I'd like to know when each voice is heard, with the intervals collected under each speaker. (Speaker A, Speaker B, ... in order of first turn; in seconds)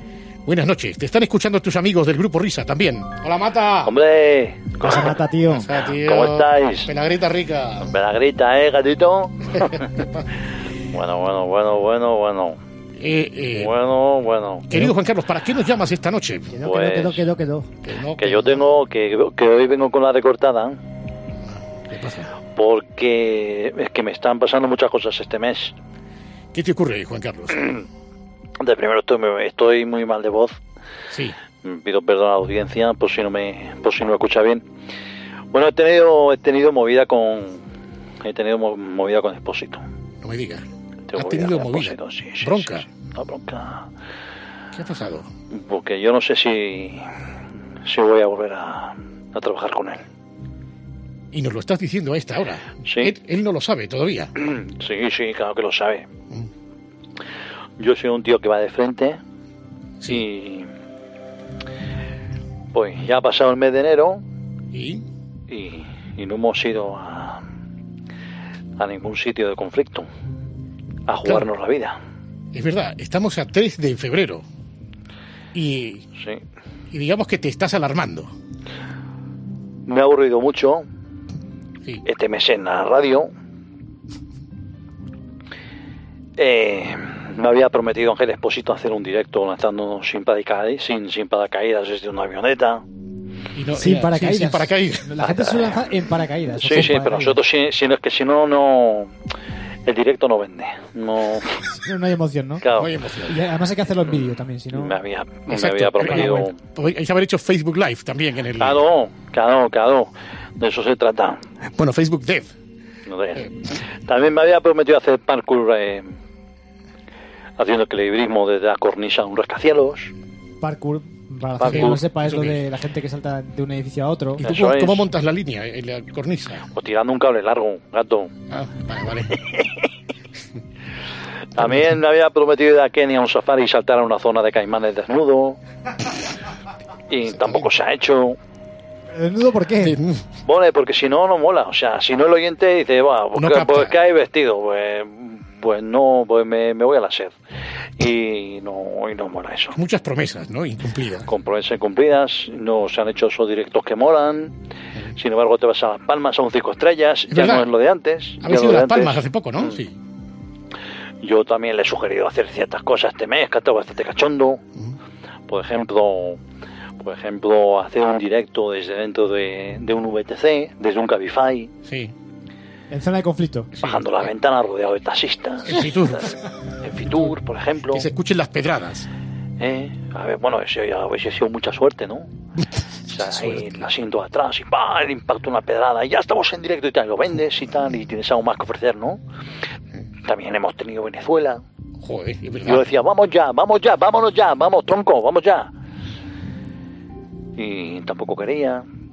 Speaker A: 0.5-3.9, 5.5-7.9, 13.0-13.7, 14.7-16.5, 17.8-18.6, 21.9-22.3, 26.5-27.8, 40.2-40.6, 41.1-42.9, 44.7-45.3, 51.3-54.3, 64.7-65.0, 72.5-74.4, 75.5-76.0, 76.9-78.3, 93.5-95.0, 102.8-103.3, 105.5-108.8, 111.8-112.5, 121.6-122.6, 124.4-126.7, 128.5-129.3, 139.8-140.2, 143.3-143.9, 149.7-151.3, 157.3-157.7, 158.4-159.9, 171.9-172.1, 173.8-174.2, 175.6-176.3, 177.9-179.1, 183.2-183.8, 192.0-192.8
Speaker B: 3.8-5.1, 6.0-6.9, 7.8-9.8, 10.9-12.6, 13.5-14.7, 16.6-17.2, 18.2-20.8, 22.5-25.7, 28.6-30.6, 31.6-34.6, 35.5-37.6, 38.2-39.8, 41.1-43.9, 45.5-47.0, 47.8-50.0, 52.9-53.1, 54.4-56.1, 57.8-59.2, 60.0-60.7, 62.7-64.2, 65.5-67.4, 68.8-70.1, 71.1-72.0, 76.2-76.4, 79.9-80.8, 82.0-83.3, 86.4-92.8, 95.3-95.7, 96.6-99.1, 99.8-101.6, 102.6-102.9, 104.2-106.5, 108.6-111.4, 113.1-113.5, 114.0-116.1, 117.6-120.1, 121.6-122.0, 124.4-125.0, 126.7-128.3, 131.6-135.6, 137.1-138.4, 140.4-147.3, 148.0-149.8, 151.3-154.5, 155.2-159.8, 161.2-164.6, 165.5-166.4, 167.0-171.7, 173.8-176.2, 176.8-178.0, 179.6-182.3, 183.1-189.2, 190.2-191.6, 192.6-195.7, 197.6-198.8
Speaker C: 4.9-5.7, 16.5-17.7, 93.7-97.4, 101.7-102.6, 103.3-105.0, 120.6-124.4, 139.1-140.0, 172.9-173.7